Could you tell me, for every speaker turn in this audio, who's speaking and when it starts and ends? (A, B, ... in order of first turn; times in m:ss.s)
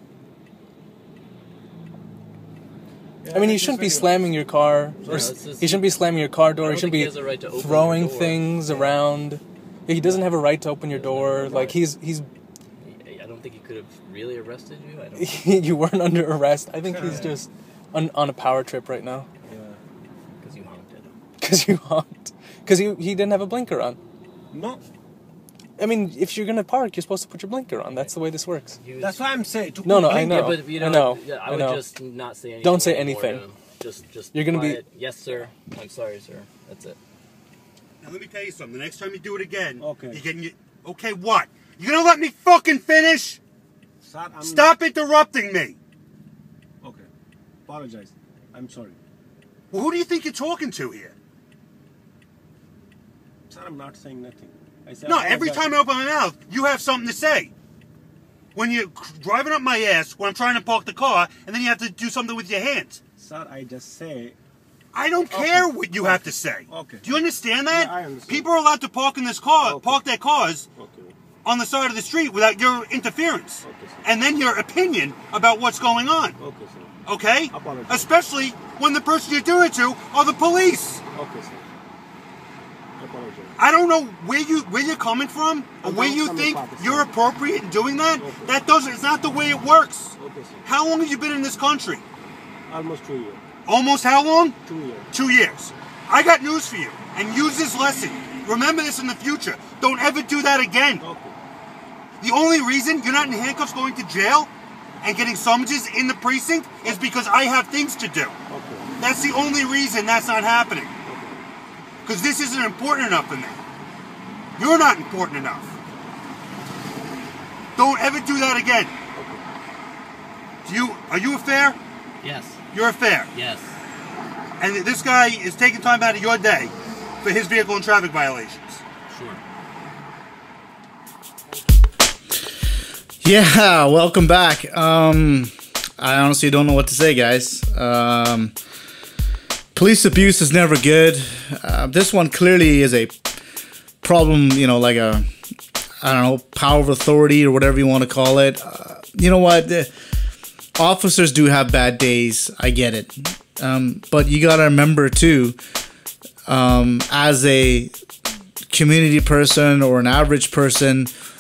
0:03.2-0:04.2 A
0:03.3-0:12.3 B
0:05.0-0:05.3 A
0:05.1-0:05.9 C
0:06.6-0:09.1 C
0:10.9-0:11.8 C
0:12.8-0:15.5 C
0:15.2-0:19.3 B
0:16.8-0:17.4 A
0:17.0-0:17.4 C
0:19.4-0:19.8 A
0:20.4-0:21.2 C
0:21.4-0:24.0 B
0:24.5-0:24.8 A
0:25.8-0:28.8 B
0:27.8-0:28.2 C
0:28.8-0:29.2 C
0:29.0-0:30.6 A
0:29.8-0:31.9 B
0:30.0-0:37.0 C
0:32.6-0:33.4 B
0:34.3-0:34.8 B
0:38.0-0:43.4 D
0:39.8-0:40.2 A
0:44.0-0:44.8 A
0:44.4-0:45.8 D
0:46.8-0:47.1 A
0:47.7-0:49.0 A
0:49.7-0:51.1 D
0:53.5-0:55.7 A
0:55.1-0:57.5 D
0:58.5-1:03.0 D
1:03.2-1:04.4 A
1:04.9-1:10.7 D
1:05.3-1:07.2 A
1:07.7-1:08.5 A
1:09.6-1:10.0 A
1:10.8-1:11.2 A
1:11.4-1:16.4 D
1:13.6-1:14.1 A
1:16.4-1:16.9 A
1:17.1-1:21.0 D
1:17.5-1:18.1 A
1:21.1-1:21.7 A
1:23.0-1:23.6 A
1:23.6-1:32.0 D
1:25.8-1:27.1 A
1:28.2-1:28.6 A
1:30.2-1:30.7 A
1:32.7-1:33.4 A
1:33.7-1:34.6 D
1:34.6-1:35.1 A
1:35.1-1:41.0 D
1:41.0-1:41.4 A
1:42.2-1:44.5 D
1:45.0-1:48.4 D
1:48.5-1:48.9 A
1:49.0-1:50.9 D
1:51.0-1:51.4 A
1:52.0-1:53.6 D
1:54.6-1:55.7 D
1:57.8-1:58.9 D
1:59.2-1:59.4 A
2:00.6-2:01.8 D
2:02.2-2:02.6 C
2:02.7-2:03.3 D
2:03.3-2:03.8 C
2:04.6-2:08.8 D
2:09.1-2:09.4 C
2:13.2-2:18.5 E
2:19.8-2:23.1 E
2:24.0-2:25.3 E
2:26.0-2:29.9 E
2:30.8-2:35.6 E
2:36.5-2:37.9 E
2:38.7-2:41.1 E